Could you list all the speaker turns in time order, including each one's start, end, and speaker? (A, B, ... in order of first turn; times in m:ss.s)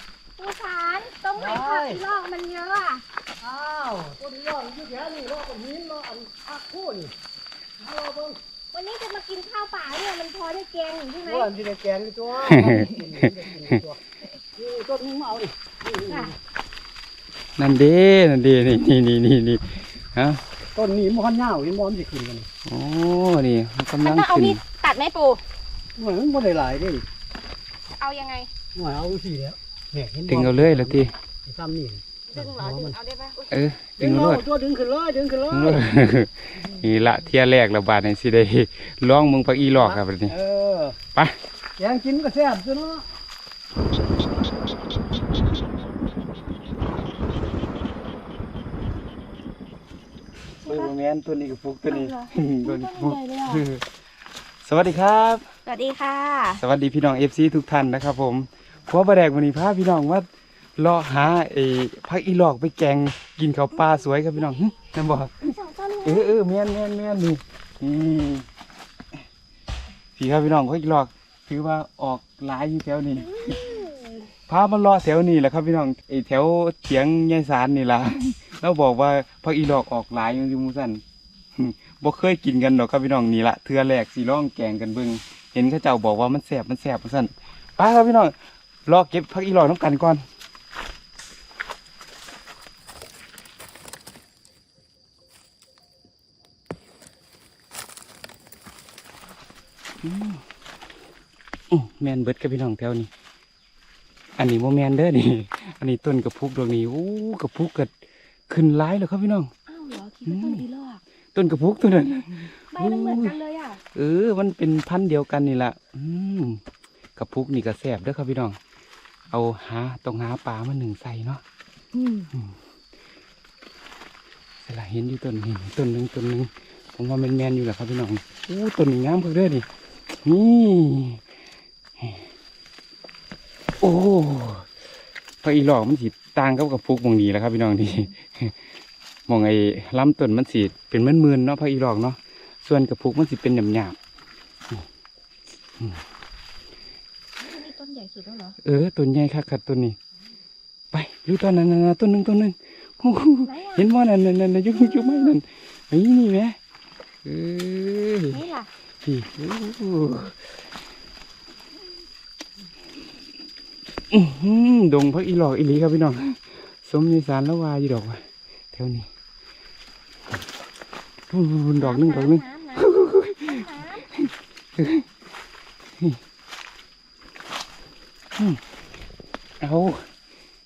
0:00.4-0:03.0 A
0:01.4-0:02.0 B
0:03.4-0:07.1 B
0:07.8-0:08.4 B
0:08.7-0:11.5 A
0:11.3-0:14.0 B
0:12.4-0:13.2 C
0:12.6-0:13.0 A
0:14.6-0:16.4 B
0:16.1-0:16.4 A
0:17.6-0:20.4 C
0:20.8-0:22.5 B
0:22.7-0:24.6 C
0:24.0-0:25.4 A
0:26.0-0:27.0 B
0:28.0-0:28.5 A
0:28.8-0:33.0 B
0:30.3-0:31.1 C
0:32.3-0:33.5 A
0:33.5-0:34.4 C
0:34.0-0:35.9 B
0:35.5-0:40.4 C
0:39.8-0:41.0 B
0:41.8-0:43.1 B
0:50.6-0:50.9 A
0:50.7-0:53.8 C
0:51.9-0:53.6 A
0:54.6-0:55.5 C
0:55.6-0:56.6 A
0:56.6-1:08.5 C
1:05.4-1:06.4 A
1:10.2-1:13.6 C
1:13.2-1:14.3 A
1:14.5-1:21.0 C
1:21.6-1:28.4 C
1:28.9-1:30.2 C
1:40.0-1:40.4 C
1:41.7-1:43.1 C
1:44.4-1:47.9 C
1:48.5-1:49.5 C
1:49.7-1:51.0 A
1:50.3-1:50.7 C
1:51.4-1:53.4 C
1:52.7-1:53.8 A
1:53.9-1:56.6 C
1:57.2-1:58.6 C
1:59.3-2:01.4 C
2:01.9-2:02.3 A
2:04.6-2:09.7 C
2:10.2-2:11.2 C
2:13.8-2:14.7 C
2:15.4-2:18.6 C
2:19.3-2:24.0 C
2:27.4-2:28.6 A
2:28.6-2:30.0 C
2:30.9-2:36.6 C
2:33.4-2:33.9 A
2:34.7-2:35.4 A
2:37.2-2:38.4 C
2:38.3-2:38.7 A
2:39.0-2:40.4 C
2:44.1-2:49.1 C
2:51.3-2:55.1 C
2:51.8-2:54.1 A
2:58.4-2:58.6 C
2:59.6-3:00.1 C